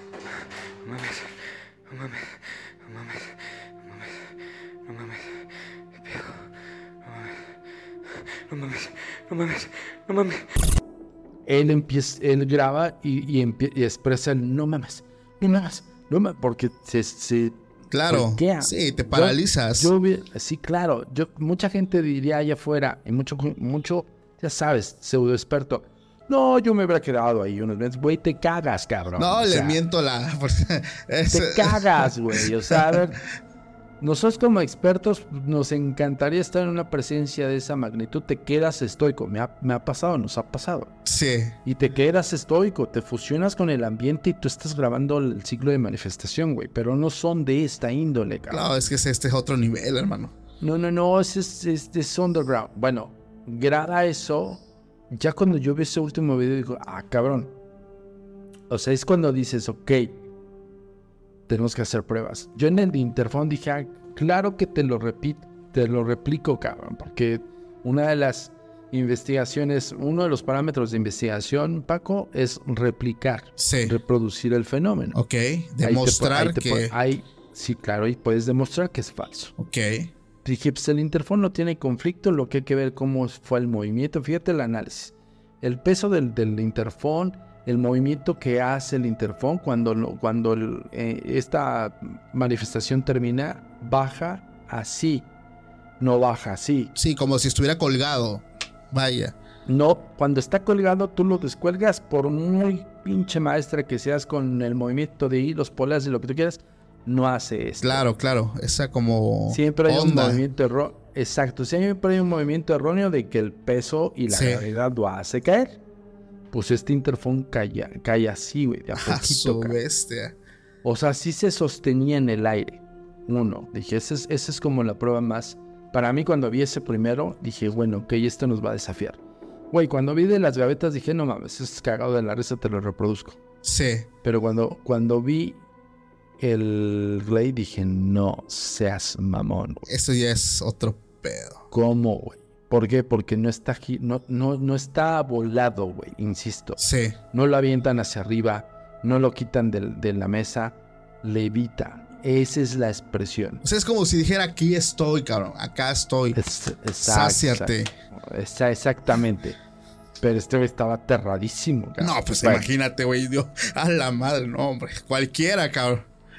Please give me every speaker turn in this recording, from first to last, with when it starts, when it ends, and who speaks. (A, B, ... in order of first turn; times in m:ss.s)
0:00.2-0:10.6 A
0:11.5-0:29.8 B
0:17.9-0:19.9 C
0:29.2-0:33.0 C
0:31.3-0:33.2 B
0:34.0-0:40.9 B
0:41.1-0:41.6 C
0:41.6-0:48.7 B
0:48.5-0:50.3 C
0:50.6-0:57.5 B
0:58.7-1:00.2 B
1:01.5-1:15.2 B
1:13.6-1:14.0 C
1:15.2-1:16.9 C
1:15.8-1:19.5 B
1:19.6-1:20.1 C
1:20.4-1:35.3 B
1:36.0-1:36.9 B
1:37.0-1:39.4 C
1:39.7-1:48.0 B
1:47.8-1:50.4 C
1:49.5-1:55.8 B
1:54.3-1:54.6 C
1:56.5-1:59.8 B
1:59.0-2:00.4 C
2:00.8-2:09.2 B
2:09.7-2:13.4 B
2:13.6-2:14.1 C
2:14.2-2:15.6 B
2:16.4-2:19.9 B
2:19.9-2:21.6 C
2:21.7-2:26.8 B
2:26.8-2:27.2 C
2:27.3-2:33.6 B
2:33.6-2:36.4 C
2:36.3-2:39.6 B
2:37.0-2:37.9 C
2:40.2-2:42.7 B
2:42.0-2:46.1 C